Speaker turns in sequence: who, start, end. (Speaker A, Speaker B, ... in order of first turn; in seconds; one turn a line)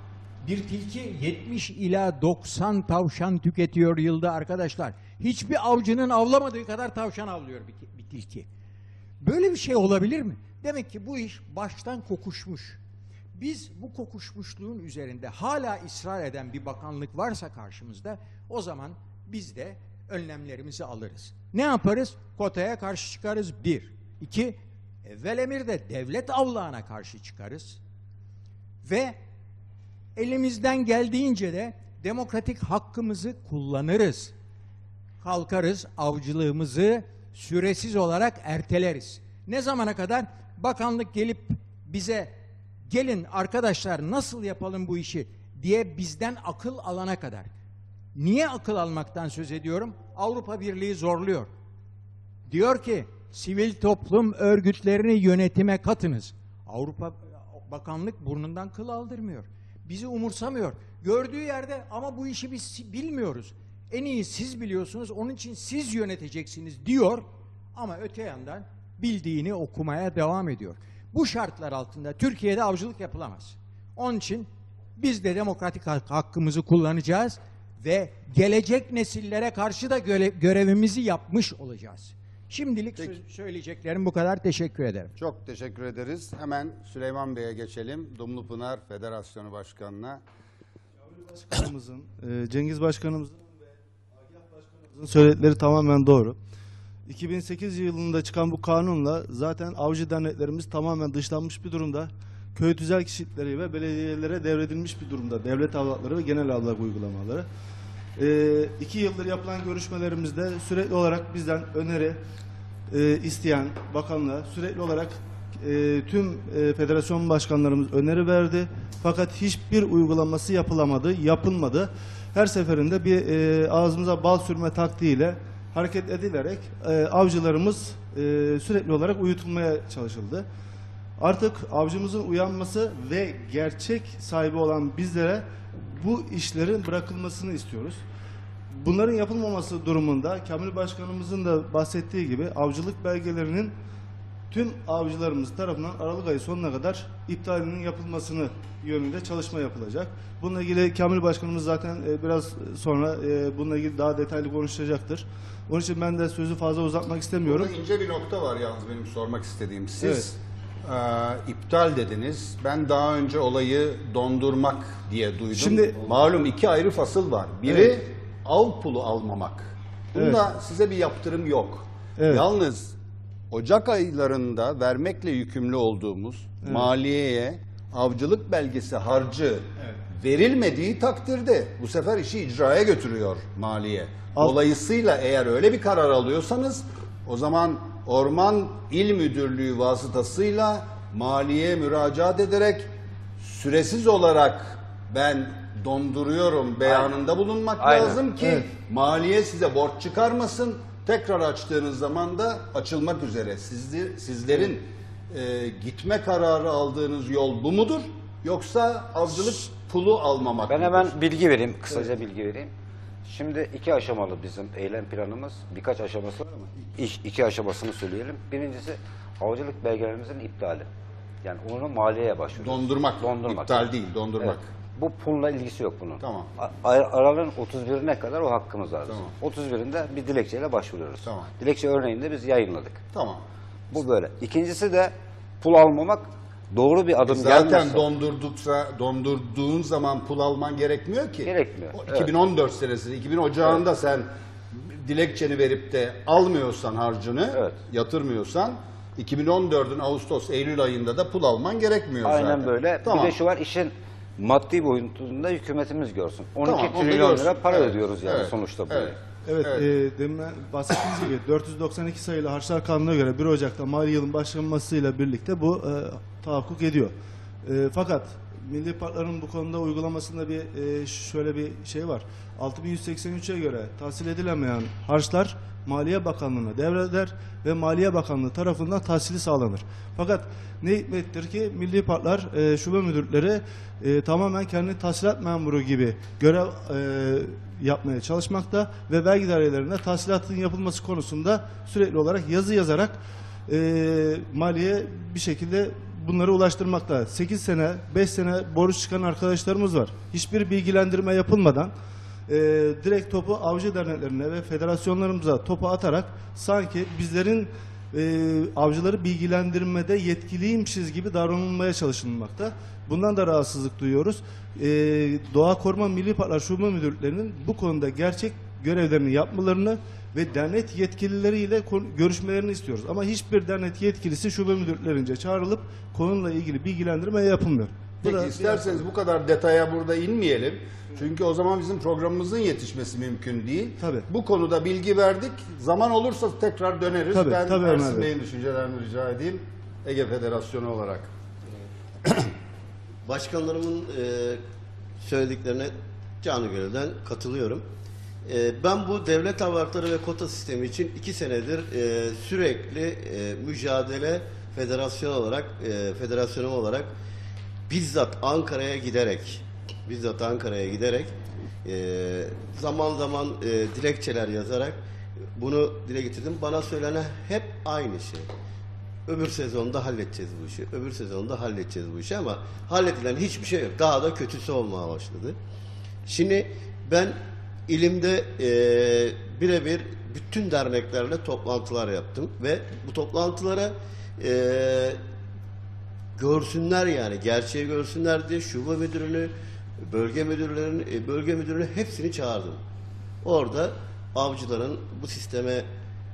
Speaker A: 0.4-8.5
Speaker A: 9.2-12.8
Speaker A: 13.3-27.8
Speaker A: 28.8-29.2
Speaker A: 30.2-34.3
Speaker A: 35.2-42.3
Speaker A: 42.9-47.5
Speaker A: 48.1-51.5
Speaker A: 52.5-85.1
Speaker B: 85.2-90.2
Speaker C: 91.0-96.4
Speaker C: 97.1-107.5
Speaker C: 108.2-112.2
Speaker C: 112.9-130.5
Speaker C: 131.2-138.0
Speaker C: 138.7-143.7
Speaker C: 144.5-157.7
Speaker B: 157.4-173.0
Speaker C: 160.0-160.3
Speaker C: 165.5-166.0
Speaker C: 167.7-167.9
Speaker C: 170.2-170.4
Speaker C: 172.2-172.4
Speaker B: 173.5-192.9
Speaker B: 193.4-211.2
Speaker D: 197.8-198.2
Speaker D: 210.7-212.7
Speaker D: 213.2-220.9
Speaker D: 221.4-233.0
Speaker B: 222.6-224.7
Speaker B: 226.2-226.5
Speaker B: 229.1-229.3
Speaker B: 231.2-231.5
Speaker B: 233.1-233.4
Speaker D: 233.9-238.0
Speaker B: 237.2-253.4
Speaker D: 241.4-242.3
Speaker D: 252.2-259.2
Speaker B: 256.6-259.9
Speaker C: 259.4-267.1
Speaker C: 267.6-301.9
Speaker C: 302.5-328.9
Speaker B: 328.2-341.3
Speaker C: 334.0-334.3
Speaker C: 337.3-338.3
Speaker E: 343.2-344.6
Speaker E: 345.2-347.8
Speaker E: 348.5-357.1
Speaker E: 357.9-361.3
Speaker E: 361.9-365.0
Speaker E: 365.6-368.5
Speaker E: 369.3-375.6
Speaker E: 376.3-377.4
Speaker E: 377.9-385.2
Speaker E: 386.4-389.5
Speaker E: 390.0-392.8
Speaker E: 393.4-395.9